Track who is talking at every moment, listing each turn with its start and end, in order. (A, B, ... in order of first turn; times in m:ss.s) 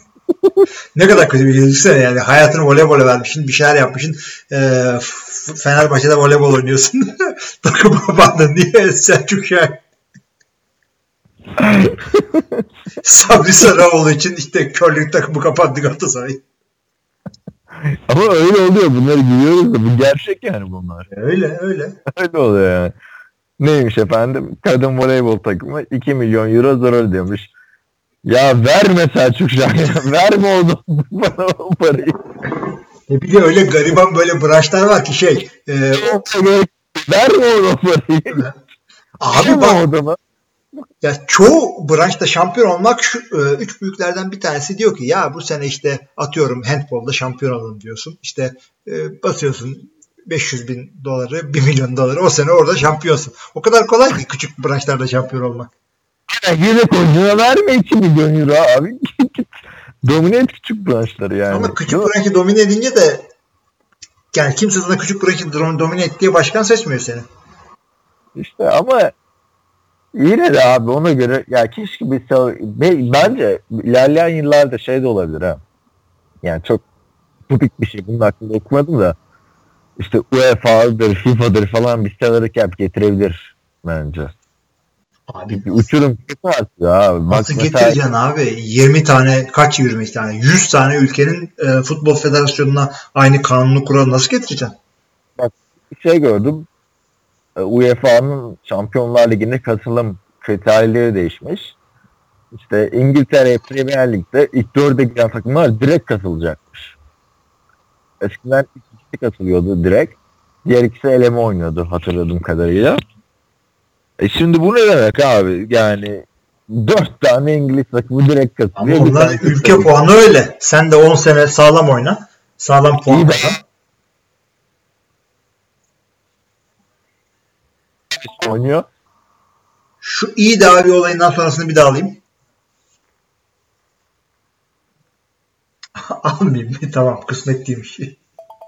0:00.4-0:00.6 A
0:00.9-0:09.8 B
0:11.6-0:12.6 A
0:13.0-0:16.4 B
0:17.8-0:21.1 A
0:21.1-0:22.0 B
0:22.1-0:22.9 A
0:23.6-0:27.5 A
0:28.2-0:32.2 A
0:33.1-0:36.2 B
0:36.0-0:38.5 A
0:39.2-0:39.8 B
0:39.3-0:40.2 A
0:41.0-0:55.7 B
0:56.3-1:02.1 A
1:01.5-1:03.3 B
1:04.3-1:07.2 B
1:08.4-1:09.1 A
1:10.1-1:15.6 A
1:16.4-1:16.8 A
1:17.5-1:19.2 A
1:20.0-1:24.4 A
1:25.3-1:25.8 B
1:25.5-1:28.0 A
1:27.3-1:34.7 B
1:35.4-1:36.7 A
1:37.6-1:41.8 A
1:42.5-1:46.9 A
1:48.2-1:53.0 A
1:54.2-1:59.9 A
1:58.8-2:03.6 B
2:03.1-2:03.6 A
2:08.1-2:08.8 A
2:10.0-2:12.2 B
2:16.0-2:18.2 B